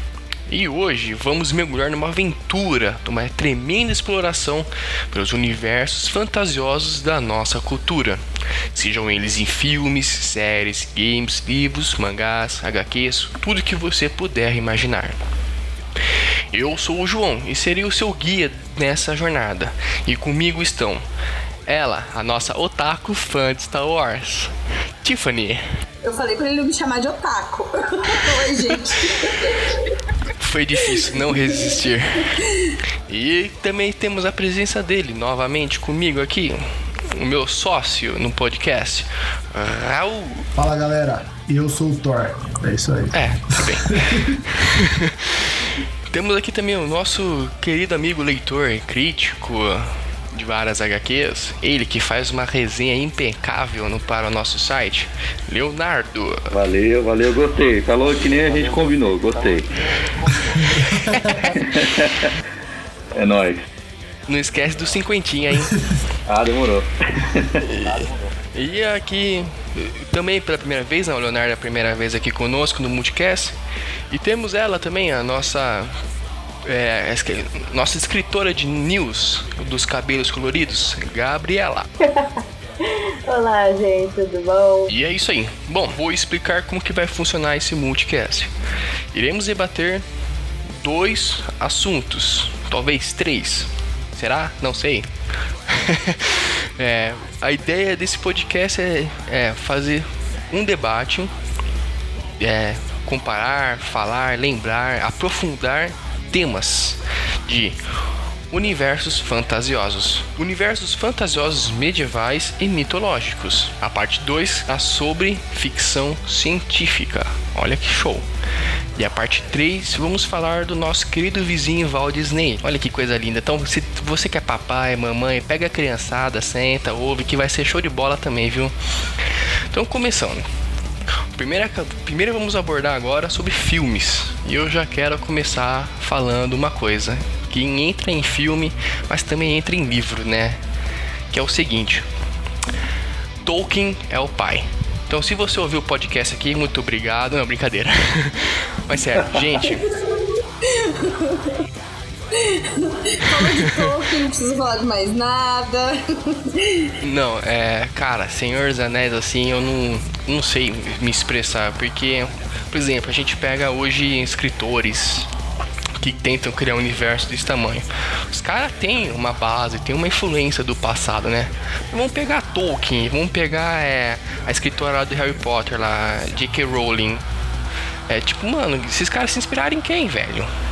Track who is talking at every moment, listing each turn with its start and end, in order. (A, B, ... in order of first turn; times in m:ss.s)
0:00.5-0:08.2 A
0:08.7-0:15.2 A
0:16.5-0:21.0 A
0:21.7-0:25.6 A
0:26.0-0:30.0 B
0:28.9-0:29.2 A
0:30.4-0:32.4 A
0:30.8-0:31.2 B
0:32.3-0:32.8 B
0:33.1-0:40.5 A
0:40.6-0:44.4 C
0:43.1-0:56.5 A
0:56.5-0:59.7 D
1:00.3-1:02.4 D
1:00.5-1:01.6 C
1:03.1-1:03.7 D
1:04.3-1:05.8 A
1:06.3-1:07.8 D
1:07.6-1:13.5 A
1:14.1-1:15.9 A
1:16.6-1:21.9 A
1:22.0-1:24.9 E
1:24.9-1:28.5 A
1:29.1-1:30.0 A
1:30.7-1:35.1 A
1:35.7-1:41.3 A
1:42.4-1:47.8 A
1:48.5-1:58.2 A
1:59.0-2:10.4 A
2:11.3-2:20.6 A
2:21.3-2:22.0 A
2:23.4-2:29.9 A
2:30.6-2:31.6 B
2:32.3-2:36.9 B
2:33.4-2:33.9 A
2:37.0-2:45.3 A
2:46.0-2:57.2 A
2:58.1-3:00.5 A